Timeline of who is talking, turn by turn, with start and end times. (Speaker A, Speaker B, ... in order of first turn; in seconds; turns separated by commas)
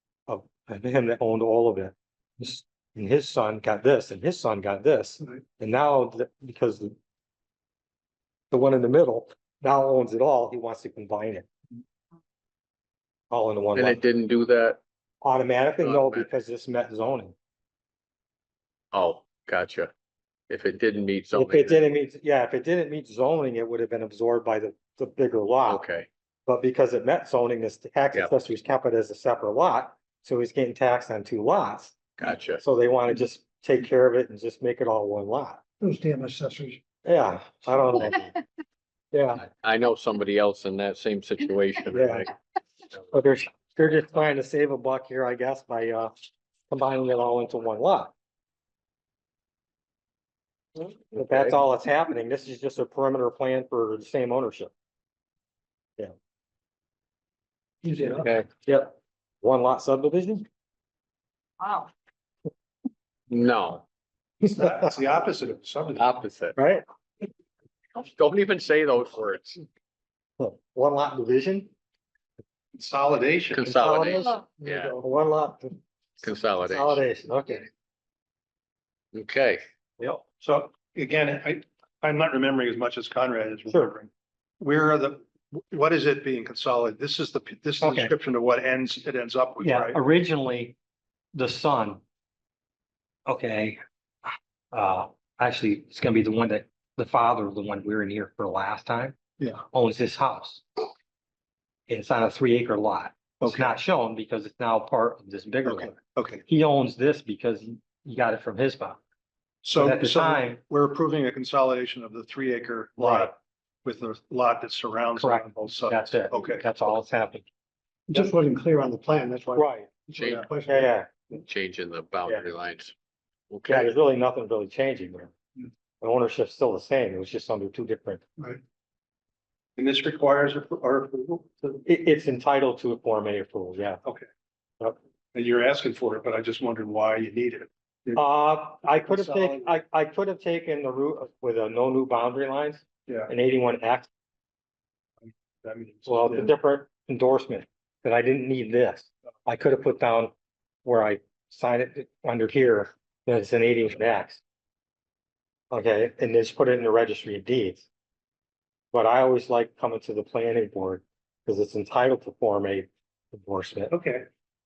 Speaker A: 0.3-7.0, Speaker A: 8.5-11.5, Speaker A: 13.3-14.0, Speaker B: 13.7-14.8, Speaker A: 15.2-17.4, Speaker B: 15.8-16.3, Speaker B: 18.9-19.9, Speaker B: 20.5-21.9, Speaker A: 21.3-25.8, Speaker B: 25.7-26.1, Speaker A: 26.5-32.0, Speaker B: 32.2-32.6, Speaker A: 32.5-35.6, Speaker C: 35.8-36.8, Speaker A: 37.0-38.3, Speaker A: 39.1-39.4, Speaker B: 39.4-42.3, Speaker A: 41.9-42.3, Speaker A: 43.1-46.1, Speaker A: 46.7-48.1, Speaker B: 51.1-51.6, Speaker A: 51.1-54.7, Speaker C: 57.8-58.3, Speaker B: 58.0-58.5, Speaker A: 58.5-60.5, Speaker B: 63.3-63.8, Speaker D: 64.4-66.1, Speaker A: 64.4-64.9, Speaker B: 66.0-66.6, Speaker A: 66.6-66.8, Speaker B: 68.0-69.6, Speaker A: 70.4-71.7, Speaker D: 72.7-73.7, Speaker B: 73.5-75.0, Speaker A: 73.6-75.8, Speaker B: 76.2-77.0, Speaker A: 76.6-77.7, Speaker B: 79.1-79.6, Speaker A: 80.0-80.2, Speaker D: 80.4-84.1, Speaker D: 84.6-90.0, Speaker A: 87.8-88.1, Speaker A: 89.6-90.8, Speaker A: 91.3-92.0, Speaker A: 93.3-99.2, Speaker A: 99.7-100.7, Speaker A: 101.9-105.9, Speaker D: 103.4-103.7, Speaker D: 105.7-106.4, Speaker A: 106.5-109.0, Speaker D: 109.6-116.7, Speaker A: 109.8-110.6, Speaker A: 113.0-113.3, Speaker A: 115.2-117.5, Speaker C: 118.1-120.9, Speaker A: 119.5-120.0, Speaker B: 120.2-120.5, Speaker D: 120.2-120.5, Speaker A: 120.6-121.1, Speaker B: 121.3-122.9, Speaker B: 123.5-123.9, Speaker A: 123.7-125.3, Speaker A: 126.0-128.2, Speaker D: 129.8-131.8, Speaker A: 131.8-134.0, Speaker D: 135.3-138.2, Speaker A: 138.1-144.1, Speaker D: 138.9-139.7, Speaker D: 145.2-146.5, Speaker A: 146.1-150.3, Speaker A: 150.8-154.4, Speaker A: 155.7-157.9, Speaker A: 158.9-164.0, Speaker D: 163.9-164.3